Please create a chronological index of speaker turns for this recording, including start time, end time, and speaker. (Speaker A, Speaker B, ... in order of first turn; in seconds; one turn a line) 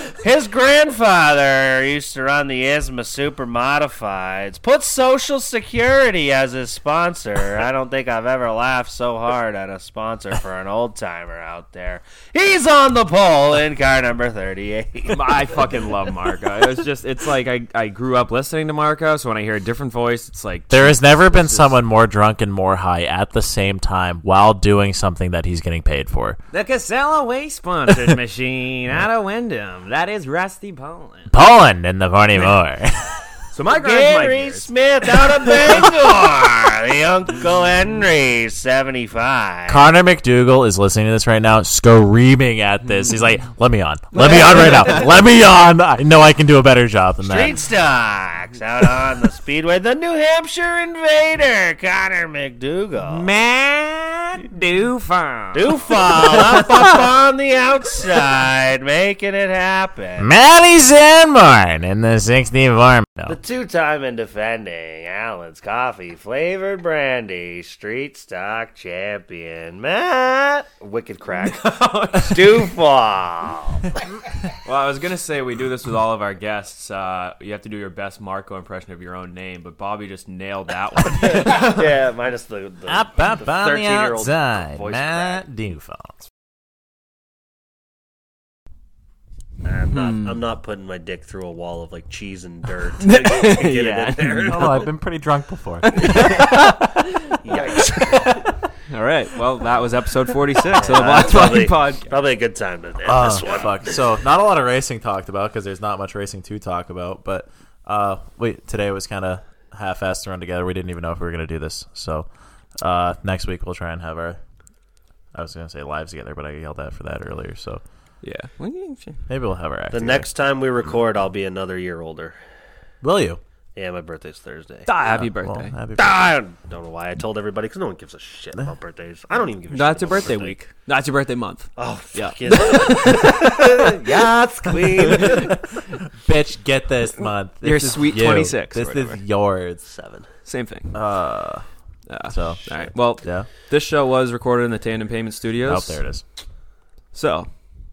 Speaker A: 0.2-15.6
Speaker B: 15.1-21.8
Speaker C: 20.7-26.4
Speaker B: 26.5-31.3
Speaker C: 31.3-33.2
Speaker B: 33.5-35.9
Speaker A: 33.7-39.9
Speaker C: 39.7-47.6
Speaker B: 44.2-45.0
Speaker A: 44.2-44.9
Speaker A: 47.2-53.3
Speaker B: 53.1-55.7
Speaker A: 55.5-60.3
Speaker C: 60.2-63.4
Speaker A: 63.3-73.9
Speaker B: 71.4-72.4
Speaker B: 74.7-81.8
Speaker A: 81.2-85.5
Speaker C: 82.9-86.2
Speaker A: 89.6-94.9
Speaker C: 90.0-90.3
Speaker B: 93.0-94.8
Speaker C: 94.5-96.8
Speaker B: 95.8-96.7
Speaker A: 97.4-98.2
Speaker B: 98.9-102.1
Speaker A: 100.7-103.8
Speaker C: 103.0-112.3
Speaker C: 112.8-114.4
Speaker C: 115.3-117.8
Speaker B: 118.2-119.2
Speaker C: 119.3-120.3
Speaker A: 119.9-122.4
Speaker C: 123.0-123.4
Speaker A: 123.8-125.0
Speaker B: 124.9-125.8
Speaker C: 125.4-126.3
Speaker A: 126.0-130.6
Speaker B: 129.7-131.7
Speaker A: 131.8-135.5
Speaker B: 132.6-133.3
Speaker C: 132.6-135.6
Speaker C: 136.2-139.8
Speaker B: 137.6-139.2
Speaker A: 139.8-140.3
Speaker B: 140.5-140.9
Speaker C: 140.9-141.7
Speaker B: 142.1-146.0
Speaker C: 142.3-143.5
Speaker C: 145.7-146.2
Speaker B: 147.1-147.5